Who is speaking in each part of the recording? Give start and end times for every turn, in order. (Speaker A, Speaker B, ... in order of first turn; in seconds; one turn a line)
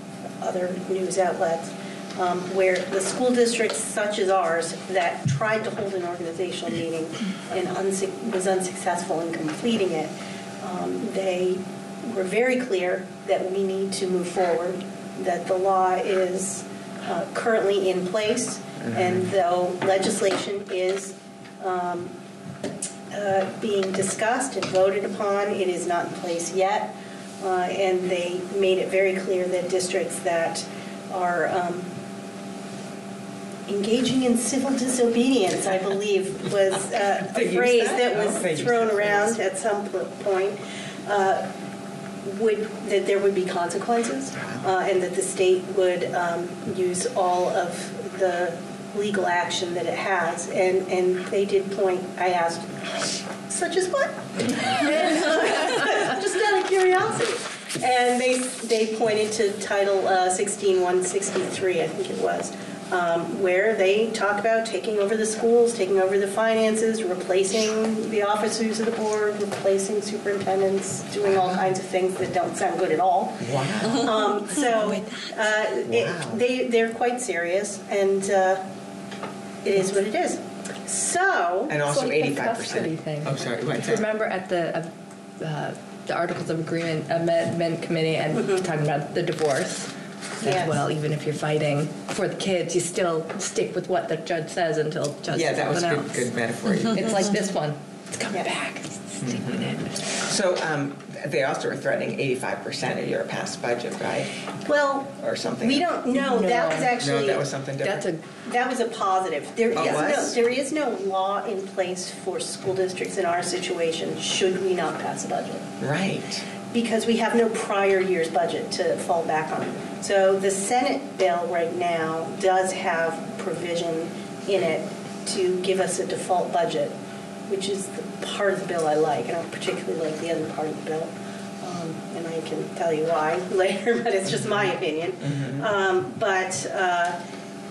Speaker A: 0.4-22.2
Speaker B: 18.8-19.2
Speaker A: 23.1-31.9
Speaker A: 33.7-41.5
Speaker B: 37.2-39.4
Speaker A: 42.2-78.6
Speaker B: 73.4-74.1
Speaker B: 75.9-76.4
Speaker A: 79.6-81.8
Speaker B: 81.7-84.1
Speaker C: 81.8-96.2
Speaker A: 88.3-88.6
Speaker A: 90.4-90.8
Speaker B: 95.3-97.2
Speaker C: 96.8-99.9
Speaker B: 99.2-104.3
Speaker A: 104.6-107.4
Speaker B: 105.2-105.9
Speaker C: 106.2-106.9
Speaker B: 107.0-108.0
Speaker C: 107.8-108.2
Speaker A: 108.4-115.7
Speaker B: 109.7-110.4
Speaker B: 115.8-116.4
Speaker A: 116.7-126.9
Speaker A: 127.5-137.2
Speaker B: 135.2-135.6